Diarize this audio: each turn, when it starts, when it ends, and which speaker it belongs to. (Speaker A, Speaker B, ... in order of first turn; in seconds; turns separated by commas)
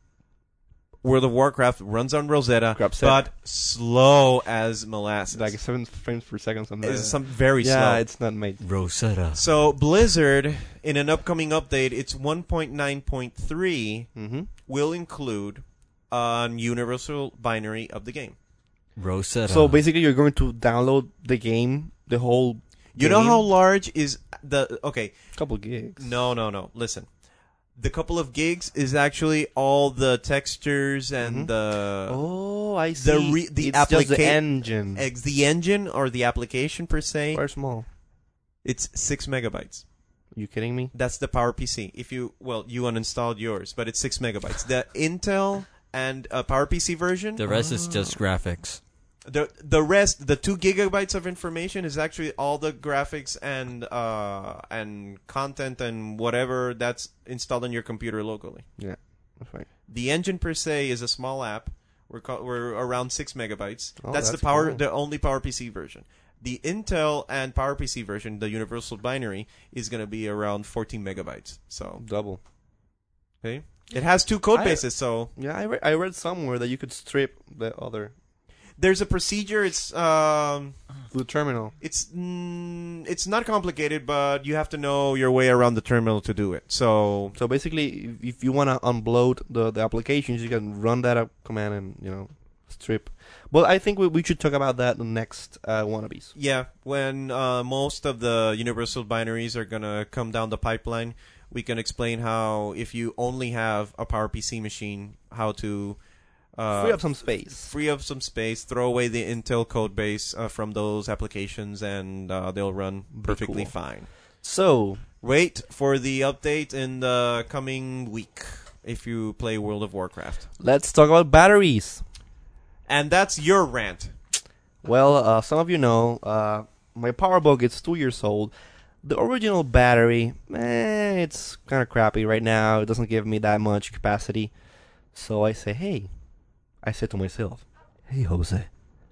Speaker A: 1.0-5.5, Speaker B: 2.7-3.3, Speaker B: 5.3-8.6, Speaker A: 6.8-8.0, Speaker C: 8.6-9.4, Speaker A: 9.3-14.1, Speaker B: 14.1-14.5, Speaker A: 14.7-18.3, Speaker C: 19.0-19.8, Speaker B: 19.5-23.4, Speaker A: 23.0-25.1, Speaker B: 25.4-26.1, Speaker A: 26.0-27.1, Speaker A: 27.8-32.2, Speaker B: 31.2-31.5, Speaker B: 32.1-35.0, Speaker A: 33.0-37.4, Speaker B: 37.3-37.9, Speaker A: 38.6-39.8, Speaker B: 40.3-40.9, Speaker A: 40.9-47.4, Speaker C: 47.4-48.8, Speaker B: 47.5-48.2, Speaker A: 49.3-58.6, Speaker B: 58.8-59.7, Speaker A: 59.9-72.0, Speaker B: 64.0-64.8, Speaker B: 72.0-72.4, Speaker A: 73.4-75.3, Speaker B: 74.5-78.1, Speaker A: 78.8-80.8, Speaker B: 81.1-81.7, Speaker A: 81.8-87.3, Speaker B: 87.3-96.3, Speaker A: 96.3-106.0, Speaker A: 106.5-114.1, Speaker B: 106.7-107.7, Speaker B: 113.1-113.7, Speaker B: 114.4-115.0, Speaker A: 115.2-120.5, Speaker B: 120.6-122.0, Speaker A: 122.9-124.1, Speaker B: 124.8-128.5, Speaker B: 129.0-134.5, Speaker B: 135.1-136.1, Speaker B: 136.8-138.7